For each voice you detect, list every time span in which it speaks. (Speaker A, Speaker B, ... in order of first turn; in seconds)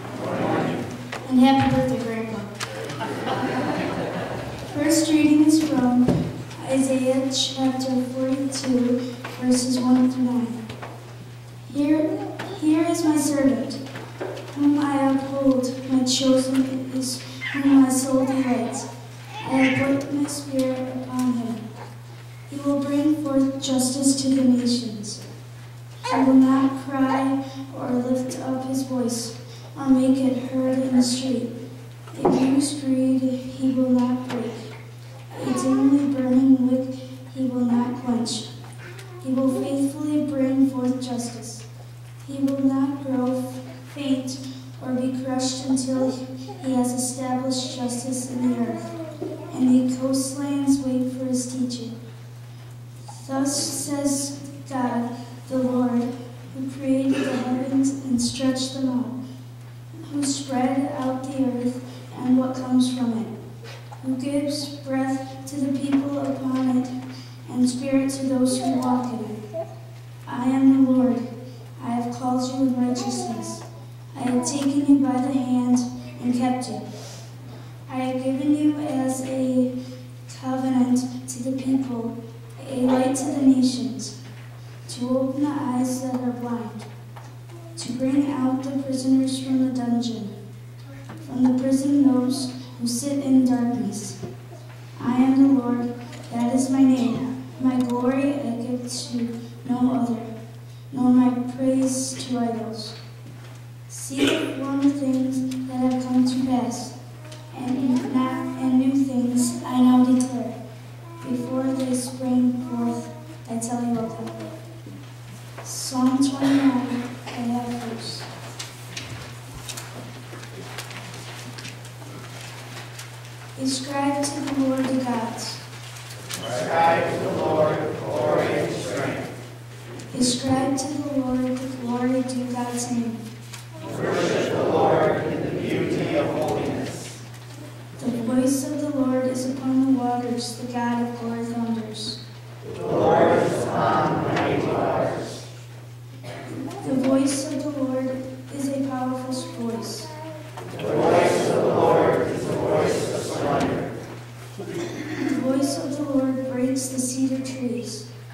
Speaker A: 1.2-2.5, 4.7-10.6, 11.7-13.8, 14.5-18.9, 19.4-21.6, 22.5-25.2, 26.1-31.5, 32.1-34.7, 35.3-38.5, 39.2-41.7, 42.2-48.9, 49.5-52.0, 53.1-59.2, 60.1-63.3, 64.0-66.9, 67.5-69.4, 70.3-71.2, 71.8-76.8, 77.9-79.7, 80.3-84.2, 84.9-86.8, 87.8-90.3, 91.3-94.2, 95.0-100.3, 100.9-103.0, 103.9-107.0, 107.5-110.6, 111.2-114.6, 115.6-118.3, 123.6-125.6, 130.1-133.2, 138.0-142.2, 146.8-150.1, 154.9-158.1
Speaker B: 126.4-129.3, 133.8-137.2, 142.8-145.3, 150.8-153.9